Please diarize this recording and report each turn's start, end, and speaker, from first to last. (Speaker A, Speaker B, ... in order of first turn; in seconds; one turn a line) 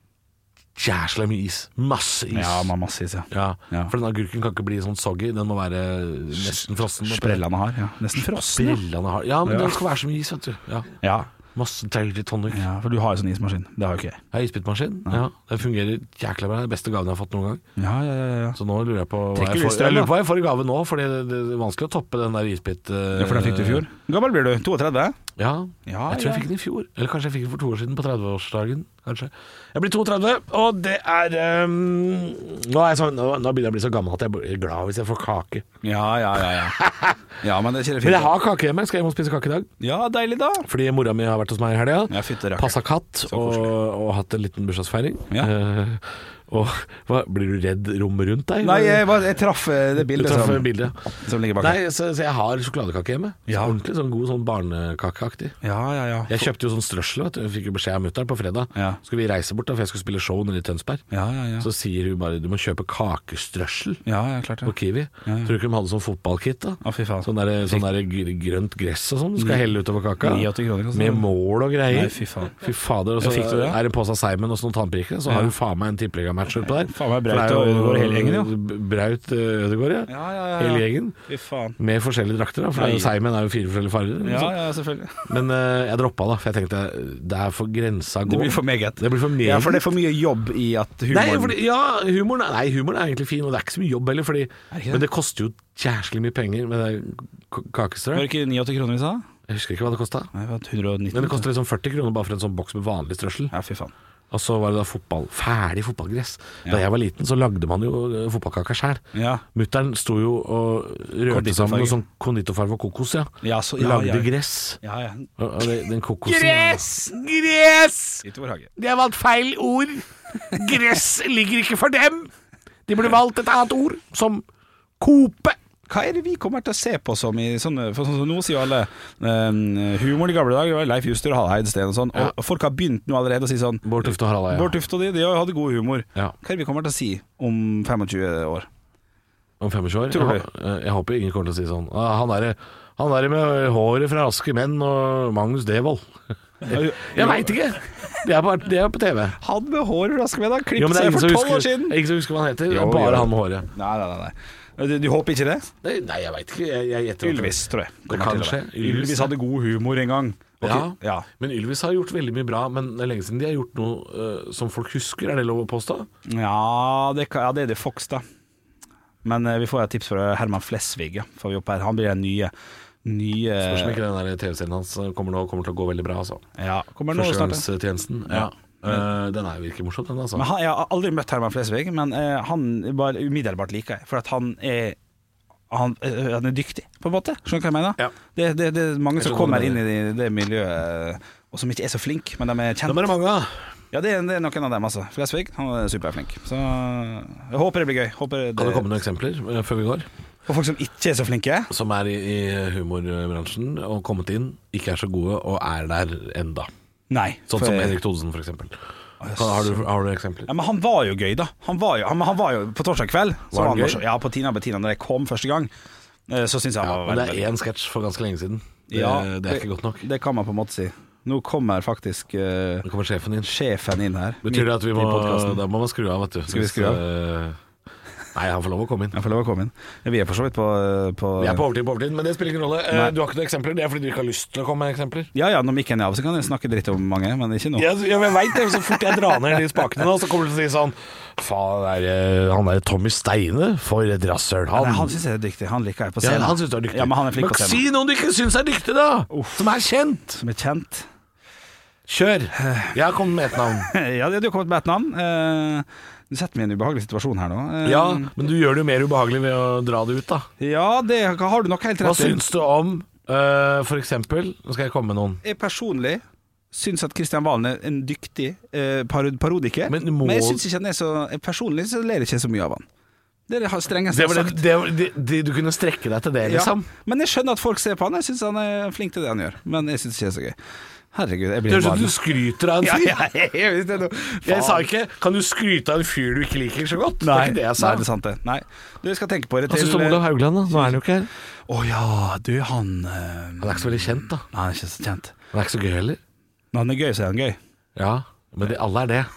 Speaker A: 0.8-2.7
Speaker B: 2.3-3.9
Speaker A: 3.3-7.4
Speaker B: 6.4-8.8
Speaker A: 8.1-10.9
Speaker B: 9.4-9.8
Speaker B: 11.0-11.3
Speaker A: 11.6-12.7
Speaker B: 12.5-14.2
Speaker A: 14.3-17.6
Speaker B: 17.8-18.6
Speaker A: 18.6-23.9
Speaker B: 19.3-20.1
Speaker B: 23.2-25.2
Speaker A: 25.4-35.7
Speaker B: 25.9-26.5
Speaker B: 35.8-36.8
Speaker A: 36.5-37.3
Speaker B: 37.4-38.3
Speaker A: 38.0-39.7
Speaker B: 39.8-40.7
Speaker A: 40.6-49.1
Speaker B: 42.1-43.7
Speaker B: 48.6-51.8
Speaker A: 50.0-55.6
Speaker B: 53.5-53.8
Speaker B: 55.6-56.5
Speaker A: 56.3-61.0
Speaker B: 61.1-61.7
Speaker A: 61.6-64.0
Speaker B: 64.0-64.7
Speaker A: 64.7-81.2
Speaker B: 65.2-65.5
Speaker B: 66.8-67.9
Speaker B: 69.4-69.7
Speaker B: 70.2-71.3
Speaker B: 71.9-72.6
Speaker B: 73.2-73.8
Speaker B: 75.3-75.5
Speaker B: 76.6-78.5
Speaker B: 80.1-81.8
Speaker A: 81.8-84.6
Speaker B: 82.7-83.1
Speaker B: 84.2-85.3
Speaker A: 85.2-89.9
Speaker B: 88.3-91.6
Speaker A: 91.1-98.3
Speaker B: 94.7-95.1
Speaker B: 98.1-99.2
Speaker A: 99.5-100.3
Speaker B: 100.3-101.5
Speaker A: 101.1-103.5
Speaker B: 103.5-103.9
Speaker A: 104.3-109.0
Speaker B: 109.1-109.4
Speaker A: 109.5-114.8
Speaker B: 111.3-112.0
Speaker B: 113.4-115.3
Speaker A: 115.4-118.2
Speaker B: 116.3-117.0
Speaker B: 118.2-118.7
Speaker A: 118.8-122.3
Speaker A: 122.9-124.5
Speaker A: 125.0-125.6
Speaker B: 125.9-138.7
Speaker A: 133.8-134.7
Speaker A: 139.6-149.4
Speaker B: 140.1-140.5
Speaker B: 146.7-147.6
Speaker B: 149.4-152.0
Speaker A: 150.8-153.7
Speaker B: 152.7-155.7
Speaker A: 155.8-159.3
Speaker B: 157.2-161.3
Speaker A: 160.6-166.1
Speaker B: 166.3-168.2
Speaker B: 169.2-172.5
Speaker B: 173.0-174.0
Speaker A: 173.6-176.4
Speaker B: 176.6-177.7
Speaker A: 177.1-180.5
Speaker B: 178.3-179.0
Speaker B: 180.3-185.0
Speaker B: 185.7-193.0
Speaker A: 189.2-189.8
Speaker A: 192.9-193.5
Speaker B: 193.9-198.9
Speaker A: 198.6-200.1
Speaker B: 200.5-201.7
Speaker A: 201.7-206.7
Speaker B: 207.1-208.0
Speaker A: 207.5-208.8
Speaker B: 209.2-209.8
Speaker A: 209.3-210.5
Speaker B: 210.5-215.7
Speaker A: 213.5-214.0
Speaker B: 216.3-217.5
Speaker A: 216.8-220.1
Speaker B: 218.9-222.9
Speaker A: 222.8-223.5
Speaker B: 223.5-225.6
Speaker A: 224.4-227.6
Speaker B: 226.5-227.0
Speaker A: 228.3-229.2
Speaker B: 229.1-231.6
Speaker A: 231.4-235.3
Speaker B: 235.3-237.9
Speaker A: 237.8-245.2
Speaker B: 238.8-239.6
Speaker B: 244.7-247.8
Speaker A: 246.2-250.4
Speaker B: 249.3-249.7
Speaker B: 250.4-251.1
Speaker A: 252.1-253.9
Speaker B: 252.6-253.0
Speaker B: 253.8-258.3
Speaker A: 257.8-260.5
Speaker B: 260.6-262.4
Speaker A: 262.0-265.4
Speaker B: 265.4-272.9
Speaker A: 269.9-270.6
Speaker B: 273.5-274.6
Speaker A: 274.1-276.9
Speaker B: 276.4-280.6
Speaker B: 281.1-282.2
Speaker A: 281.7-283.2
Speaker B: 282.8-284.9
Speaker A: 284.5-288.1
Speaker B: 287.2-291.0
Speaker A: 289.7-291.3
Speaker B: 291.7-295.4
Speaker A: 293.6-294.4
Speaker A: 295.5-296.2
Speaker B: 296.7-297.6
Speaker A: 298.0-299.3